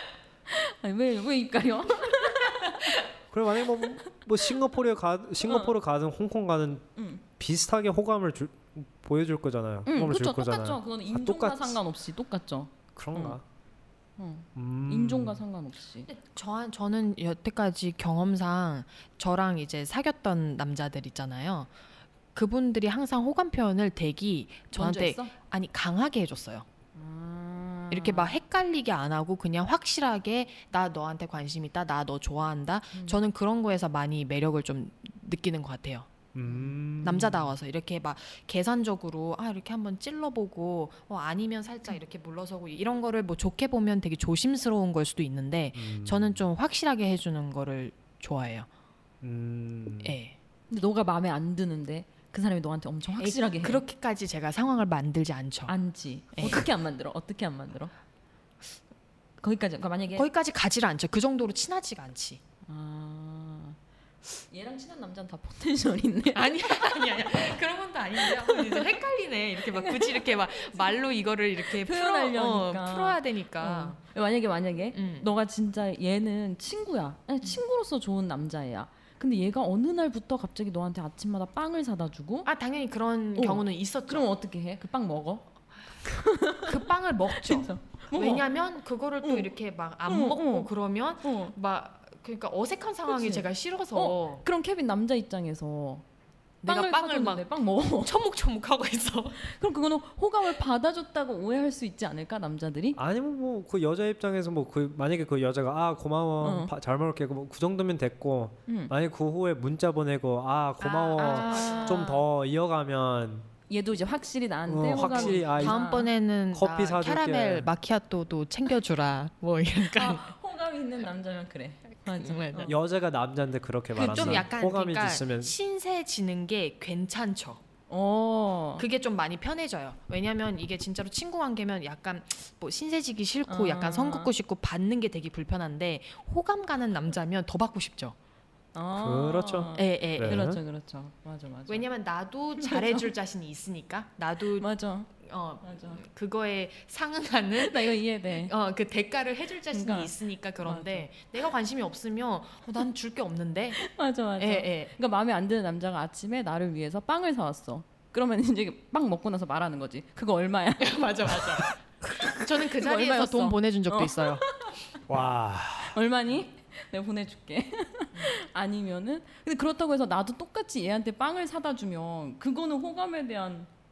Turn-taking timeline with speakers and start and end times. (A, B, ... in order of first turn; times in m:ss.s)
0:00.5-0:03.0 A
0:03.3-0:11.8 B
0:03.8-0:04.6 A
0:05.4-0:05.7 A
0:07.0-0:07.2 A
0:09.9-0:13.4 A
0:12.9-0:13.4 B
0:14.2-0:16.1 A
0:14.6-0:15.4 B
0:16.1-0:21.7 C
0:22.4-0:26.6 C
0:24.7-0:25.3 A
0:26.9-0:28.4 A
0:27.9-0:36.1 C
0:32.9-0:33.2 A
0:36.3-0:37.5 B
0:37.0-0:48.7 C
0:45.7-0:46.4 B
0:49.2-0:50.2 B
0:50.0-0:50.4 C
0:50.7-0:53.8 A
0:53.2-0:55.7 C
0:55.7-0:57.9 A
0:56.3-0:56.6 C
0:59.4-1:00.3 A
1:00.1-1:02.4 C
1:02.6-1:03.8 A
1:04.5-1:07.5 A
1:06.3-1:14.0 C
1:08.2-1:08.9 A
1:09.7-1:10.8 A
1:11.6-1:22.5 A
1:14.9-1:15.3 C
1:22.4-1:24.3 C
1:23.4-1:25.5 A
1:26.0-1:28.4 A
1:26.6-1:34.4 C
1:29.2-1:29.5 A
1:30.0-1:30.7 A
1:31.2-1:31.5 A
1:33.1-1:36.0 A
1:36.6-1:39.4 C
1:36.6-1:38.1 A
1:39.4-1:43.0 A
1:43.0-1:53.5 B
1:46.4-1:46.7 A
1:48.7-1:48.9 A
1:50.8-1:52.1 C
1:51.2-1:52.2 A
1:53.7-1:56.1 A
1:54.7-1:55.8 B
1:54.9-2:00.3 C
1:56.5-1:57.7 B
1:59.8-2:02.7 A
2:02.1-2:02.7 C
2:02.6-2:05.5 B
2:03.9-2:07.6 C
2:04.1-2:04.4 A
2:07.9-2:08.9 A
2:08.8-2:18.2 C
2:13.5-2:14.3 A
2:18.7-2:21.9 A
2:19.0-2:20.6 B
2:19.7-2:20.5 C
2:21.7-2:24.7 C
2:22.6-2:23.1 A
2:24.6-2:25.1 A
2:25.2-2:33.8 C
2:25.6-2:26.0 A
2:27.6-2:28.5 A
2:29.7-2:31.1 A
2:33.8-2:45.0 A
2:34.4-2:34.9 C
2:40.8-2:44.5 C
2:45.1-2:46.0 B
2:45.8-2:53.7 A